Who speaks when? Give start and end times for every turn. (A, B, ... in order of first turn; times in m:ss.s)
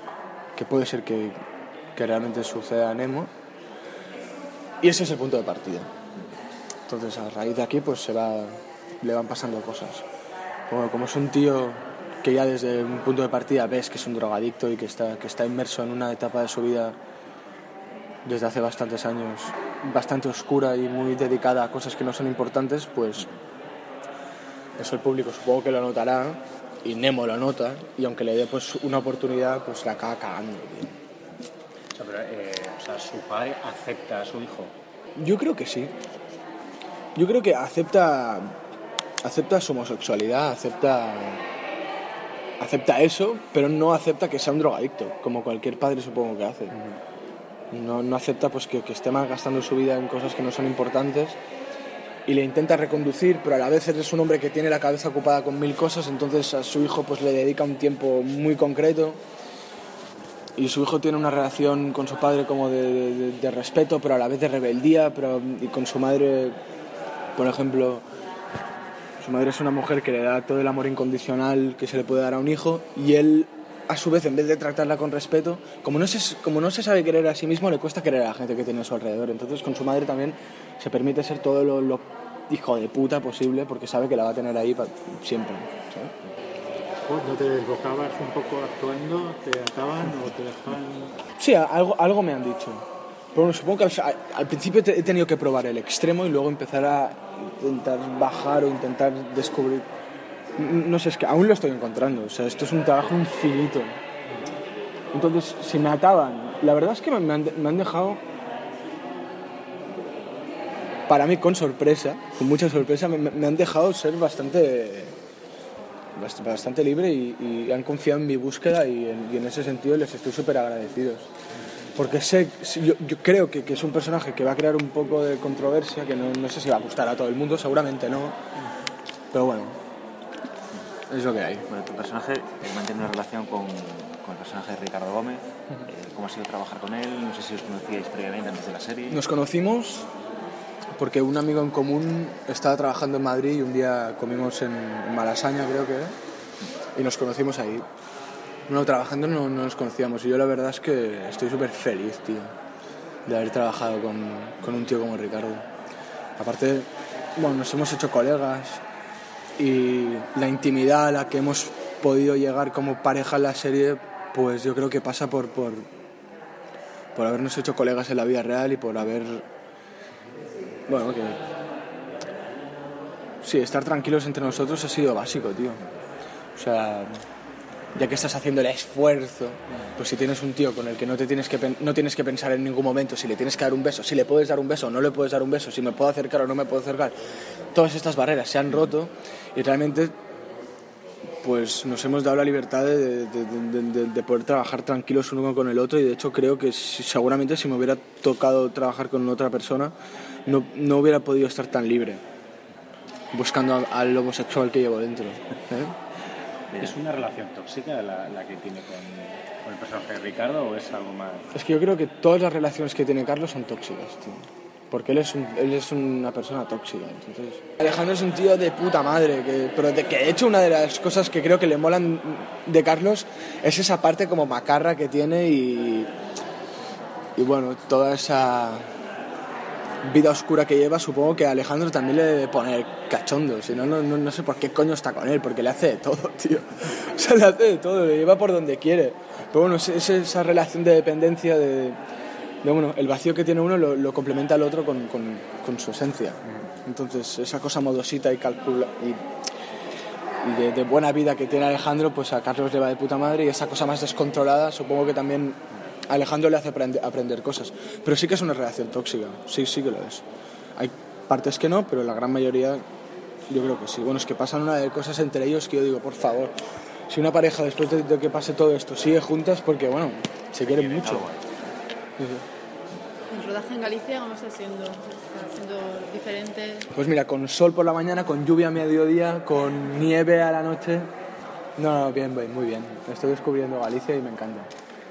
0:00.6-0:01.4 A
0:02.0-0:03.3 A
0:04.8-0:05.9 A
0:06.9-0:10.0 A
0:10.7-0:16.9 A
0:18.2-0:23.3 A
0:24.8-0:30.9 A
0:31.9-0:34.7 B
0:35.2-0:35.9 A
0:37.2-0:38.5 A
0:39.2-0:41.4 A
0:42.6-0:46.8 A
0:47.7-0:51.4 A
0:52.2-0:59.2 A
1:00.6-1:06.6 A
1:07.4-1:08.0 A
1:09.2-1:26.1 A
1:27.1-1:31.1 C
1:31.4-1:39.8 A
1:40.6-1:44.0 A
1:45.1-1:48.2 A
1:51.1-1:55.1 A
1:56.2-2:01.3 A
2:02.0-2:08.4 A
2:09.3-2:09.8 A
2:11.1-2:11.6 A
2:11.7-2:19.2 D
2:19.1-2:20.1 A
2:21.0-2:26.1 A
2:27.0-2:27.8 A
2:28.7-2:32.5 A
2:33.2-2:35.6 A
2:36.4-2:38.8 A
2:39.6-2:45.8 A
2:47.1-2:49.4 A
2:50.9-2:51.4 A
2:53.4-2:55.8 A
2:56.6-2:57.2 A
2:57.9-3:07.1 A
3:07.7-3:10.1 A
3:11.4-3:19.9 A
3:20.4-3:22.2 A
3:23.3-3:25.9 A
3:26.8-3:31.4 B
3:31.5-3:46.1 A
3:47.4-3:48.8 A
3:50.0-4:02.0 A
4:02.6-4:09.2 A
4:10.4-4:15.6 A
4:16.1-4:20.2 A
4:20.8-4:22.8 A
4:23.5-4:26.5 A
4:27.1-4:31.3 A
4:30.6-4:31.4 D
4:32.2-4:32.4 A
4:33.3-4:36.8 E
4:36.9-4:41.1 A
4:41.8-4:44.7 A